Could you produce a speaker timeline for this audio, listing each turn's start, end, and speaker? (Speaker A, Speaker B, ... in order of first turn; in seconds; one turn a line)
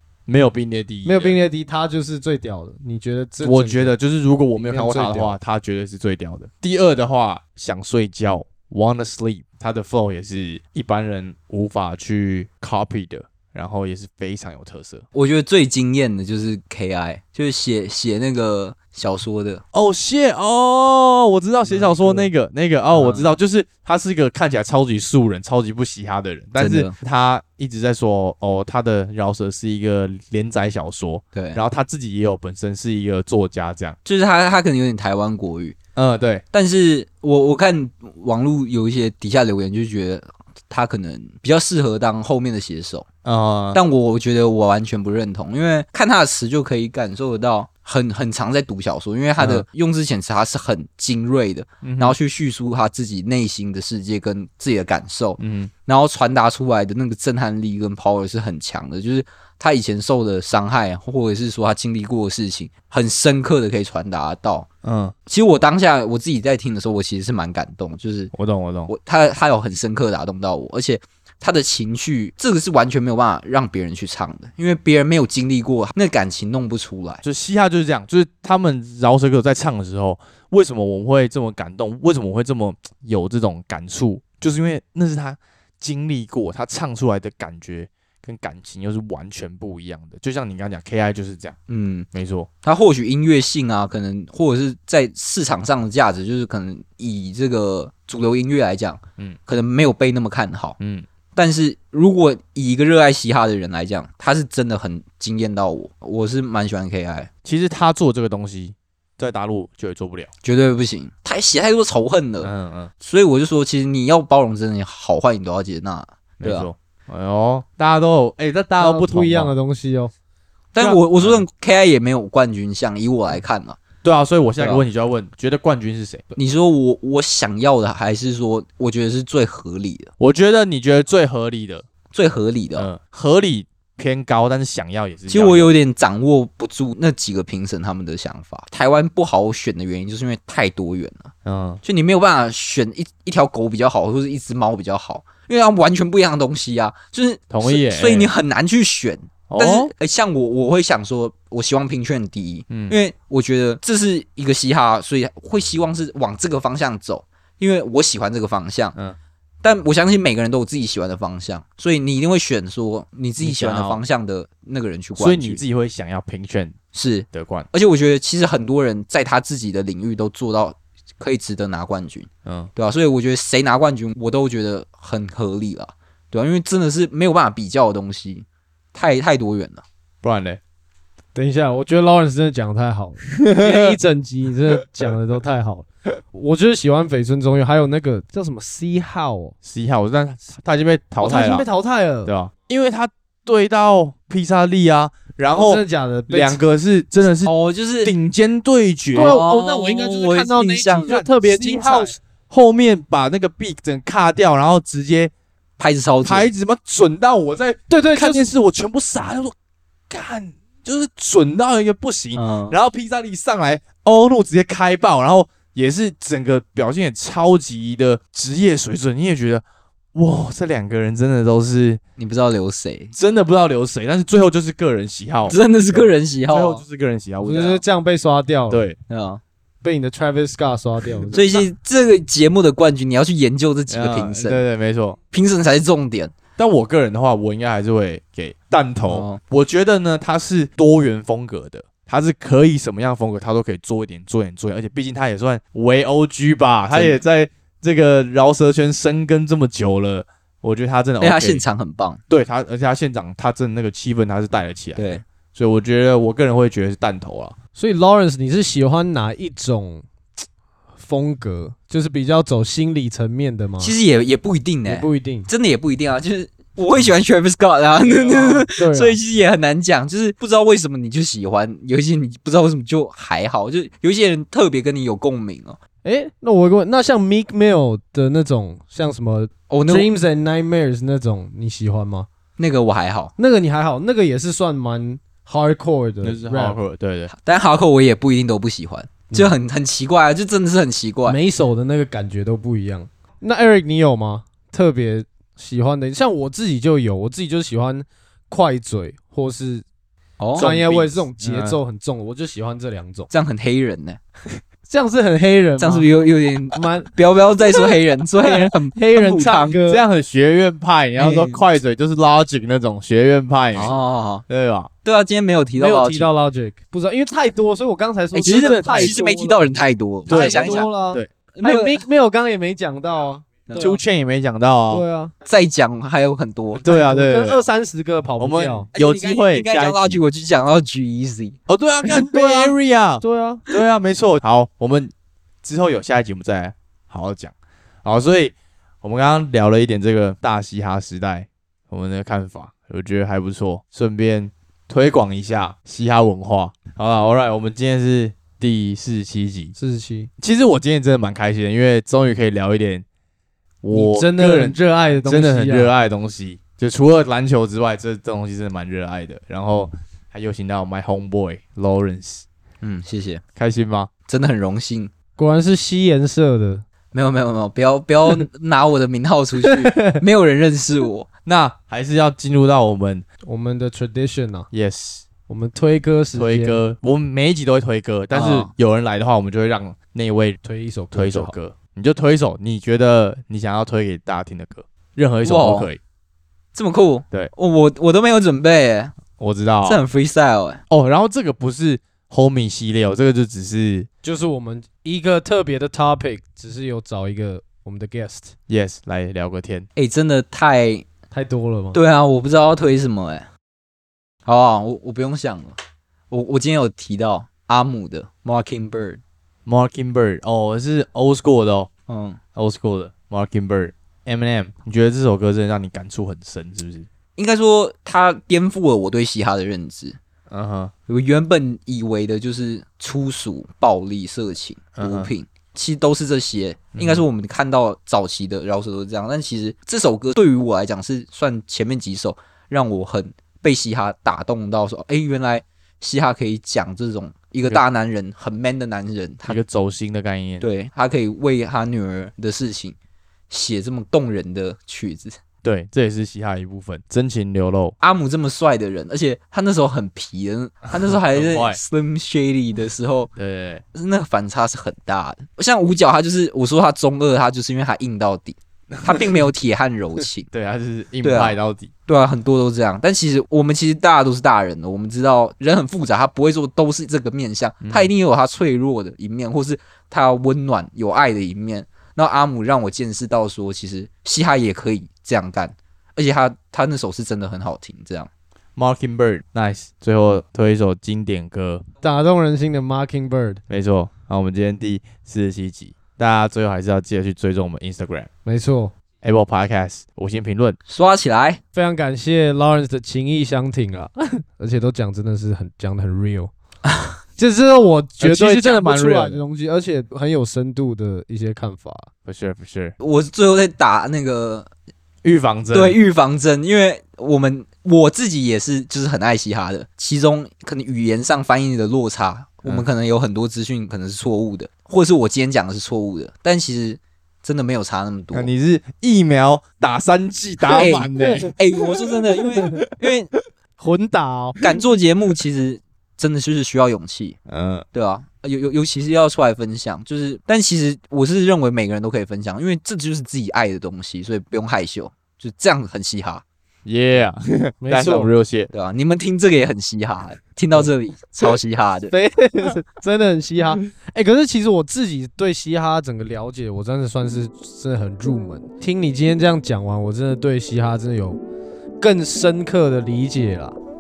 Speaker A: 0.3-1.4
Speaker B: 1.0-3.9
Speaker A: 3.4-15.0
Speaker B: 4.6-5.4
Speaker C: 15.1-19.6
Speaker A: 19.7-34.0
Speaker C: 21.6-22.2
Speaker C: 22.9-23.3
Speaker C: 26.6-26.9
Speaker C: 31.3-31.6
Speaker C: 34.0-35.8
Speaker A: 36.0-36.4
Speaker C: 36.5-43.1
Speaker A: 43.2-43.8
Speaker C: 43.7-64.7
Speaker A: 49.4-49.6
Speaker A: 51.8-52.2
Speaker A: 55.4-55.7
Speaker A: 64.8-65.1
Speaker C: 65.3-68.3
Speaker A: 68.3-68.9
Speaker C: 68.9-77.2
Speaker A: 77.2-91.6
Speaker C: 91.7-92.1
Speaker A: 92.1-92.5
Speaker C: 92.6-100.8
Speaker A: 100.8-101.0
Speaker C: 101.3-107.3
Speaker A: 107.4-110.3
Speaker C: 110.4-116.7
Speaker A: 112.4-112.9
Speaker A: 116.4-119.5
Speaker B: 118.8-120.1
Speaker C: 120.7-123.8
Speaker A: 120.8-121.4
Speaker A: 124.0-126.3
Speaker C: 124.6-124.8
Speaker C: 126.3-130.1
Speaker A: 130.2-131.8
Speaker C: 132.1-132.9
Speaker A: 132.8-135.7
Speaker C: 135.3-141.3
Speaker A: 141.4-141.8
Speaker C: 141.8-159.0
Speaker A: 147.5-148.3
Speaker A: 149.5-149.9
Speaker A: 152.7-152.9
Speaker C: 159.6-165.6
Speaker A: 163.4-164.0
Speaker A: 165.2-166.8
Speaker C: 166.9-179.8
Speaker A: 167.3-167.7
Speaker A: 172.4-172.7
Speaker A: 180.2-180.6
Speaker B: 181.3-189.5
Speaker A: 183.3-184.0
Speaker A: 189.6-191.7
Speaker B: 191.2-192.3
Speaker A: 192.2-197.5
Speaker B: 195.5-196.6
Speaker C: 197.4-198.1
Speaker A: 198.0-199.4
Speaker C: 199.1-201.2
Speaker B: 199.1-202.2
Speaker A: 201.1-205.3
Speaker C: 205.8-206.5
Speaker A: 206.2-209.5
Speaker B: 207.9-208.5
Speaker A: 210.1-219.6
Speaker C: 212.3-212.8
Speaker A: 220.1-222.0
Speaker C: 222.2-223.1
Speaker A: 223.1-227.8
Speaker C: 225.5-226.8
Speaker B: 227.4-228.8
Speaker A: 228.7-229.0
Speaker C: 229.1-229.4
Speaker B: 229.8-231.4
Speaker A: 231.3-231.6
Speaker C: 231.3-234.6
Speaker A: 233.9-235.2
Speaker C: 235.3-236.3
Speaker A: 236.6-251.6
Speaker C: 239.1-239.4
Speaker C: 246.9-247.2
Speaker C: 251.2-252.2
Speaker A: 252.3-257.6
Speaker C: 254.9-255.2
Speaker B: 257.8-260.0
Speaker B: 261.0-263.9
Speaker C: 263.8-275.8
Speaker B: 264.9-265.5
Speaker B: 268.1-269.2
Speaker B: 276.0-282.3
Speaker C: 279.7-280.1
Speaker C: 282.6-283.3
Speaker B: 283.4-286.8
Speaker A: 286.2-287.3
Speaker C: 287.3-291.4
Speaker B: 291.2-299.8
Speaker C: 300.4-301.0
Speaker B: 300.6-303.3
Speaker A: 300.6-301.8
Speaker C: 303.3-304.2
Speaker B: 304.9-306.1
Speaker C: 305.8-309.8
Speaker B: 306.7-307.1
Speaker B: 308.4-310.0
Speaker A: 309.8-313.9
Speaker C: 311.1-311.6
Speaker C: 313.7-314.4
Speaker A: 314.5-314.9
Speaker C: 315.0-316.3
Speaker B: 315.8-319.7
Speaker C: 318.3-320.9
Speaker A: 318.4-319.3
Speaker A: 320.3-321.3
Speaker B: 320.3-324.0
Speaker C: 321.5-322.0
Speaker C: 323.6-323.9
Speaker A: 323.8-325.1
Speaker B: 324.9-325.3
Speaker C: 325.4-326.8
Speaker A: 326.8-327.6
Speaker B: 326.8-328.9
Speaker A: 328.4-330.2
Speaker C: 328.9-331.6
Speaker A: 331.7-349.7
Speaker B: 332.1-333.6
Speaker B: 349.8-350.3
Speaker A: 350.4-353.0
Speaker A: 353.8-362.4
Speaker B: 353.9-355.9
Speaker C: 362.8-363.4
Speaker A: 363.6-364.1
Speaker C: 364.3-365.1
Speaker B: 365.4-366.8
Speaker C: 367.1-371.3
Speaker B: 369.6-370.2
Speaker A: 371.4-373.2
Speaker B: 373.4-374.7
Speaker A: 374.7-375.2
Speaker B: 375.5-376.8
Speaker A: 376.3-380.6
Speaker C: 378.3-378.7
Speaker B: 380.6-381.5
Speaker A: 381.1-386.0
Speaker C: 385.4-385.9
Speaker C: 386.7-389.1
Speaker A: 389.4-390.0
Speaker C: 389.8-390.8
Speaker A: 390.9-394.1
Speaker B: 394.2-398.5
Speaker A: 398.7-399.9
Speaker C: 399.9-401.1
Speaker B: 401.3-402.0
Speaker C: 401.9-403.5
Speaker C: 404.4-405.8
Speaker C: 406.3-409.2
Speaker A: 409.6-411.9
Speaker C: 412.1-412.4
Speaker A: 412.6-417.1
Speaker C: 417.4-420.2
Speaker A: 420.5-420.9
Speaker C: 421.1-439.6
Speaker A: 425.0-425.3
Speaker A: 426.9-427.2
Speaker A: 439.4-440.6
Speaker C: 440.6-443.0
Speaker C: 443.5-445.4
Speaker A: 445.6-447.9
Speaker C: 448.0-453.3
Speaker A: 450.9-451.8
Speaker A: 453.4-453.8
Speaker C: 453.9-460.5
Speaker A: 458.9-459.2
Speaker A: 460.5-461.9
Speaker C: 461.2-478.3
Speaker A: 467.8-468.1
Speaker A: 478.8-481.8
Speaker B: 482.0-483.6
Speaker A: 483.7-488.3
Speaker B: 488.4-488.9
Speaker A: 489.2-490.8
Speaker C: 490.9-491.6
Speaker B: 491.7-496.5
Speaker C: 496.9-497.1
Speaker B: 497.4-502.1
Speaker A: 498.2-499.4
Speaker A: 502.2-502.9
Speaker C: 503.0-504.7
Speaker A: 505.2-506.0
Speaker C: 505.7-518.5
Speaker A: 518.3-521.5
Speaker C: 520.7-523.3
Speaker A: 522.6-522.9
Speaker B: 523.8-524.6
Speaker C: 524.6-527.4
Speaker A: 527.5-527.8
Speaker C: 527.9-536.4
Speaker A: 536.8-538.7
Speaker B: 537.8-538.3
Speaker C: 538.7-542.1
Speaker B: 542.1-551.4
Speaker B: 552.0-553.8